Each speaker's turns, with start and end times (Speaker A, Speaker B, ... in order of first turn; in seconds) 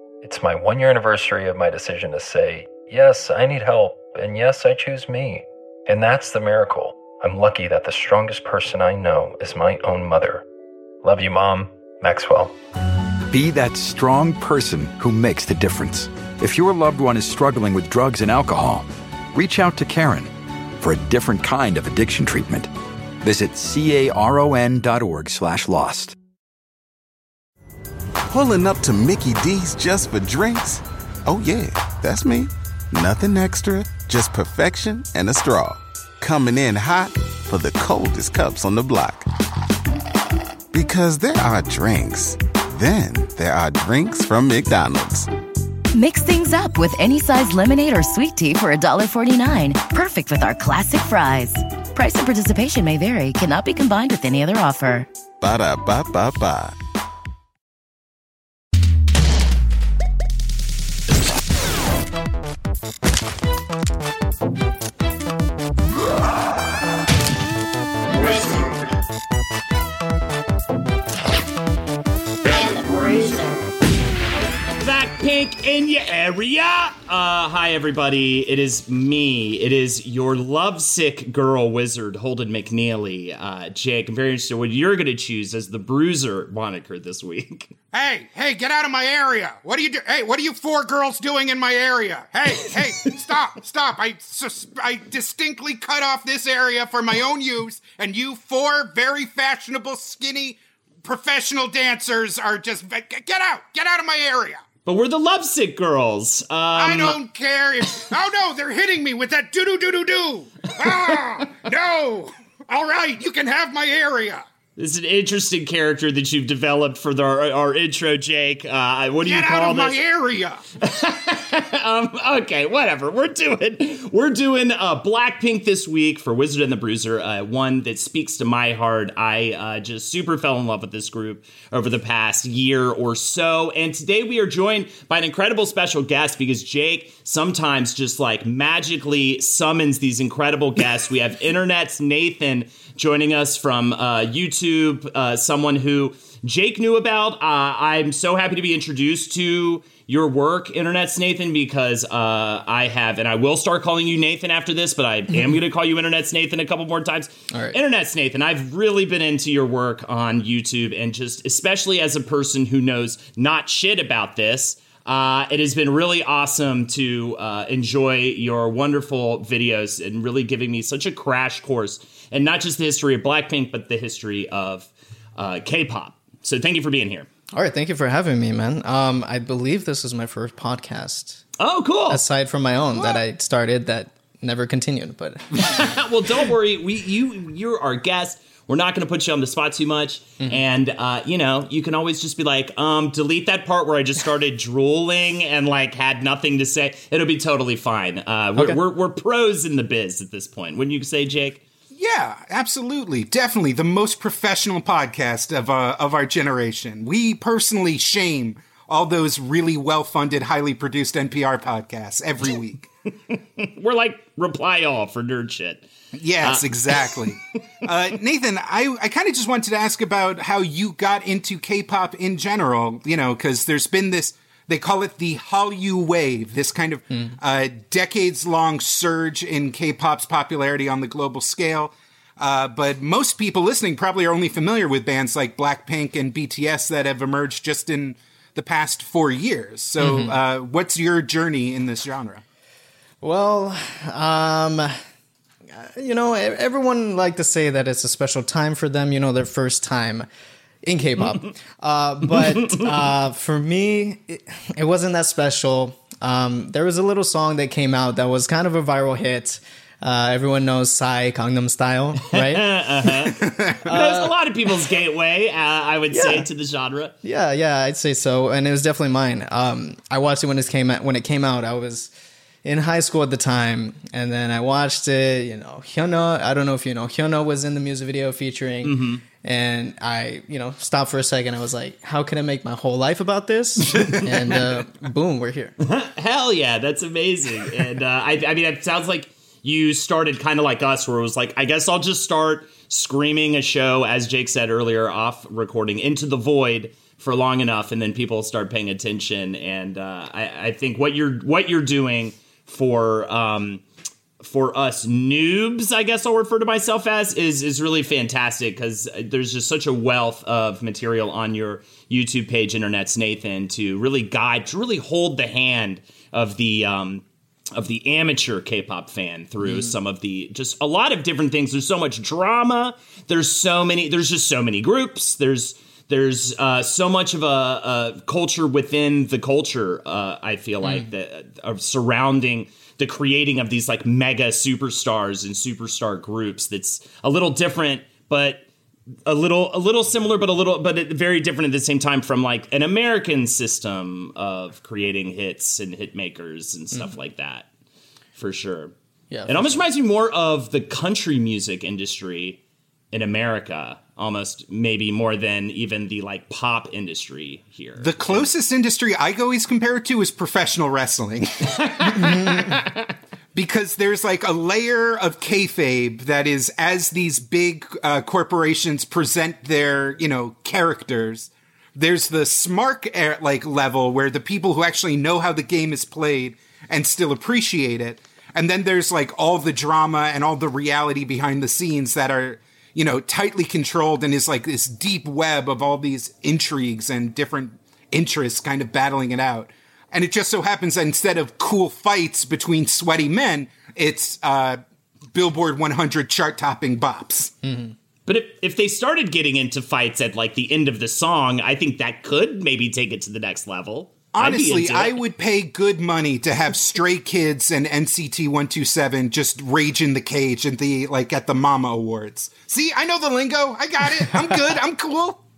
Speaker A: 0.2-10.4, 11.0-12.5
Speaker B: 13.3-22.7, 23.2-26.1
Speaker C: 28.3-39.2, 40.7-45.3, 55.4-56.8
Speaker D: 45.9-55.1
Speaker E: 74.8-87.7, 104.8-107.2, 114.8-120.0, 120.8-177.3, 181.6-182.2, 185.6-201.6, 213.3-215.8, 216.4-217.2, 262.3-267.1, 278.8-279.2, 285.8-303.8, 304.4-338.6, 339.2-347.7, 348.4-348.9, 349.5-352.6, 353.1-358.5, 361.9-363.0, 398.3-405.2
Speaker F: 87.9-104.6, 106.7-114.4, 119.2-120.6, 201.9-212.9, 216.1-242.4, 358.0-362.8, 363.5-394.8, 395.3-397.5, 404.3-415.4
Speaker G: 157.5-157.8, 177.5-181.4, 182.1-185.8, 240.0-240.3, 243.2-244.9, 245.7-250.3, 250.8-262.7, 263.9-264.3, 266.1-266.4, 267.2-272.1, 272.6-285.8, 319.6-319.9, 349.3-349.8, 397.6-397.9